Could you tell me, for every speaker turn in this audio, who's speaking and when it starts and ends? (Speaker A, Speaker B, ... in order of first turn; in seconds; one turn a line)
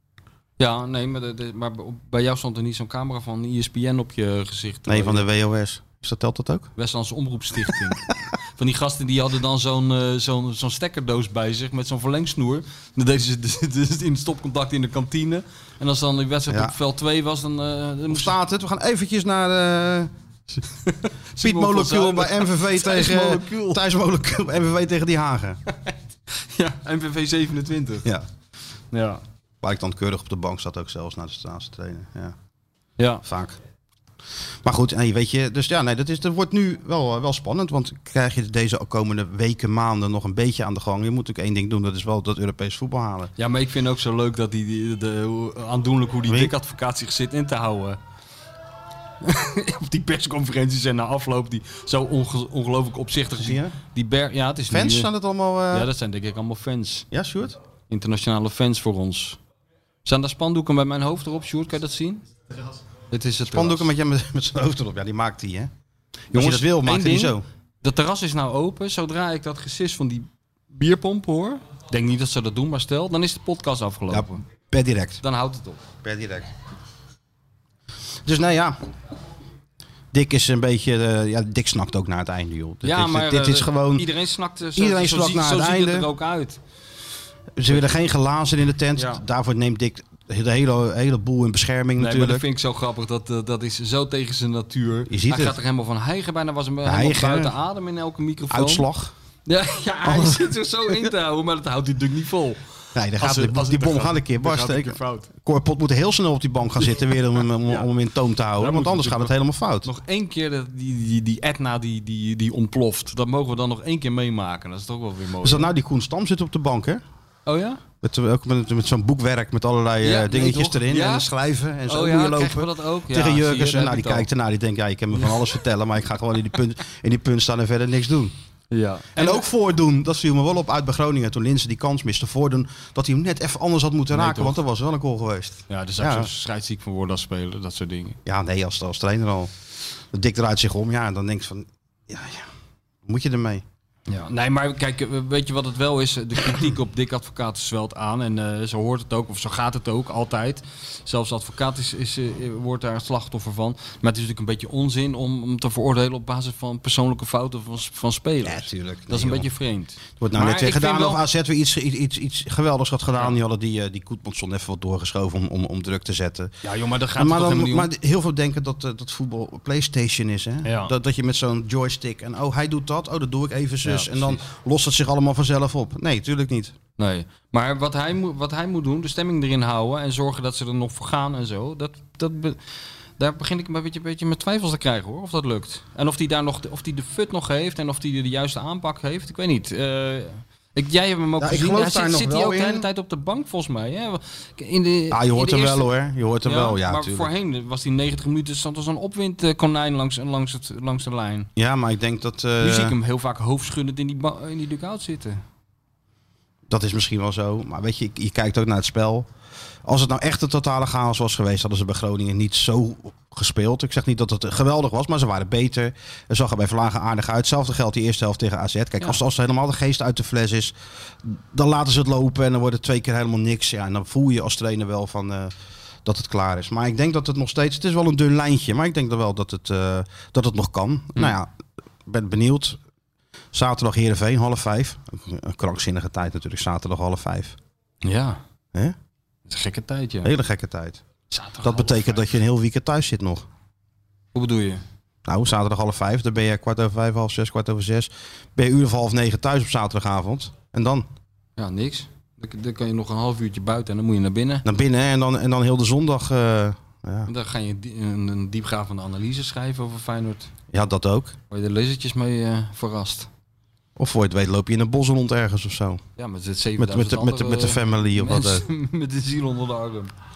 Speaker A: 0.6-5.2
Speaker B: 4.9-6.7
Speaker A: 6.8-18.3
Speaker B: 7.7-8.0
Speaker B: 16.5-16.7
Speaker B: 18.1-20.1
Speaker A: 20.8-23.8
Speaker B: 21.4-25.6
Speaker A: 26.3-28.1
Speaker A: 28.9-29.2
Speaker B: 29.6-32.4
Speaker B: 33.2-33.6
Speaker B: 34.6-43.3
Speaker A: 43.4-48.0
Speaker B: 46.2-46.5
Speaker A: 49.2-55.1
Speaker B: 53.4-53.8
Speaker B: 54.7-55.9
Speaker A: 55.7-57.1
Speaker B: 57.1-57.6
Speaker A: 57.9-59.4
Speaker A: 60.0-62.3
Speaker A: 63.1-63.9
Speaker B: 63.5-65.7
Speaker A: 66.3-74.4
Speaker B: 66.3-67.4
Speaker B: 74.1-75.2
Speaker A: 75.2-75.8
Speaker B: 76.0-76.5
Speaker B: 78.2-78.8
Speaker B: 80.1-84.1
Speaker A: 82.8-86.6
Speaker B: 84.8-86.1
Speaker B: 87.5-92.4
Speaker A: 89.0-89.2
Speaker A: 92.0-98.9
Speaker B: 95.1-95.6
Speaker B: 96.8-97.5
Speaker B: 98.5-99.1
Speaker A: 99.5-102.6
Speaker B: 100.0-101.1
Speaker B: 102.9-109.9
Speaker A: 103.2-105.3
Speaker A: 108.5-109.3
Speaker A: 109.8-115.7
Speaker B: 115.4-117.0
Speaker A: 117.5-117.8
Speaker B: 118.0-128.3
Speaker A: 120.0-121.3
Speaker A: 121.8-124.3
Speaker A: 128.7-129.4
Speaker B: 129.1-136.3
Speaker A: 134.1-134.6
Speaker A: 135.7-138.2
Speaker B: 138.2-139.5
Speaker B: 140.1-142.5
Speaker B: 143.0-143.6
Speaker A: 144.1-161.2
Speaker B: 158.4-159.5
Speaker B: 160.2-166.5
Speaker A: 166.6-167.9
Speaker B: 167.1-176.7
Speaker A: 170.6-170.9
Speaker A: 173.8-174.4
Speaker A: 177.0-182.6
Speaker A: 183.2-195.9
Speaker B: 191.4-192.9
Speaker B: 195.1-197.3
Speaker A: 196.4-201.5
Speaker B: 201.6-202.9
Speaker A: 202.6-205.4
Speaker B: 206.7-209.3
Speaker B: 209.8-225.5
Speaker B: 226.0-231.5
Speaker B: 232.1-232.8
Speaker B: 233.5-237.6
Speaker A: 238.0-238.4
Speaker A: 239.5-240.3
Speaker B: 240.2-241.0
Speaker A: 241.3-242.2
Speaker B: 241.6-243.5
Speaker A: 244.3-244.8
Speaker B: 245.2-251.1
Speaker A: 251.6-254.7
Speaker B: 254.6-257.3
Speaker A: 257.2-260.5
Speaker B: 260.7-261.4
Speaker A: 261.5-263.3
Speaker B: 264.0-266.0
Speaker A: 266.2-270.1
Speaker B: 266.8-268.6